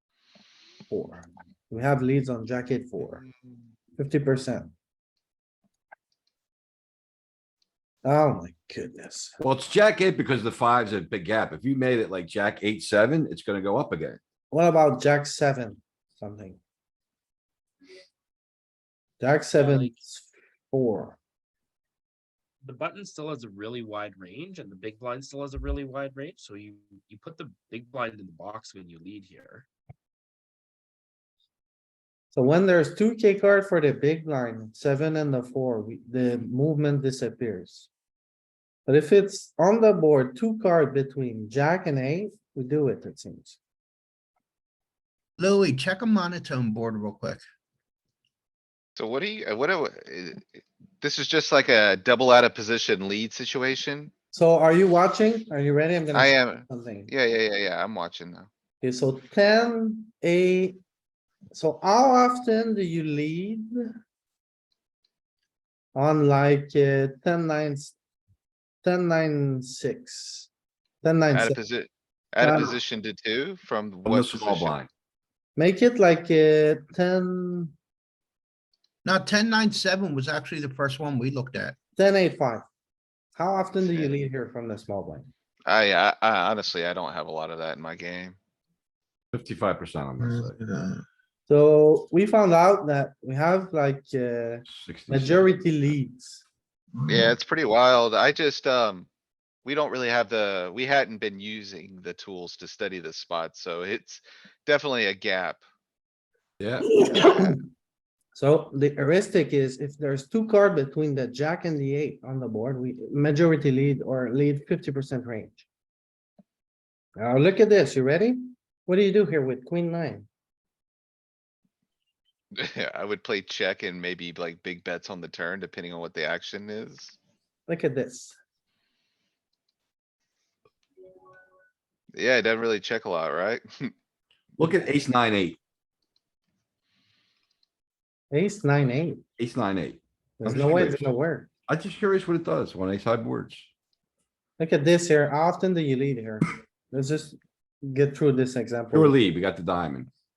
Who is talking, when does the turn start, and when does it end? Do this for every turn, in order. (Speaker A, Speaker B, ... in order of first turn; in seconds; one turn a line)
Speaker A: 0.9-3.2
Speaker A: 4.0-4.7
Speaker A: 8.0-9.4
Speaker B: 9.4-14.2
Speaker A: 14.5-16.6
Speaker A: 19.2-21.2
Speaker C: 19.5-20.0
Speaker C: 22.6-29.7
Speaker A: 32.3-37.9
Speaker A: 38.9-43.6
Speaker D: 45.4-47.4
Speaker E: 49.0-54.1
Speaker A: 54.3-57.1
Speaker E: 56.1-58.5
Speaker A: 58.8-60.8
Speaker A: 61.5-63.7
Speaker A: 66.0-68.0
Speaker A: 68.8-70.5
Speaker A: 71.0-71.6
Speaker E: 71.3-74.8
Speaker A: 72.4-72.8
Speaker B: 74.1-74.9
Speaker A: 75.6-77.7
Speaker D: 79.0-81.8
Speaker A: 82.0-82.7
Speaker A: 83.4-85.3
Speaker E: 83.8-84.2
Speaker E: 85.7-88.4
Speaker B: 89.3-90.6
Speaker A: 91.5-96.4
Speaker B: 94.7-95.5
Speaker E: 97.1-99.1
Speaker E: 99.7-105.6
Speaker B: 106.6-106.9
Speaker E: 107.0-107.6
Speaker A: 107.2-107.6
Speaker A: 108.4-115.7
Speaker A: 117.2-120.3
Speaker E: 122.6-127.2
Speaker A: 127.7-128.4
Speaker E: 132.1-133.9
Speaker B: 134.6-135.6
Speaker A: 138.3-139.2
Speaker B: 139.4-141.1
Speaker A: 140.4-141.5
Speaker B: 141.7-143.7
Speaker A: 144.6-149.2
Speaker B: 148.9-150.1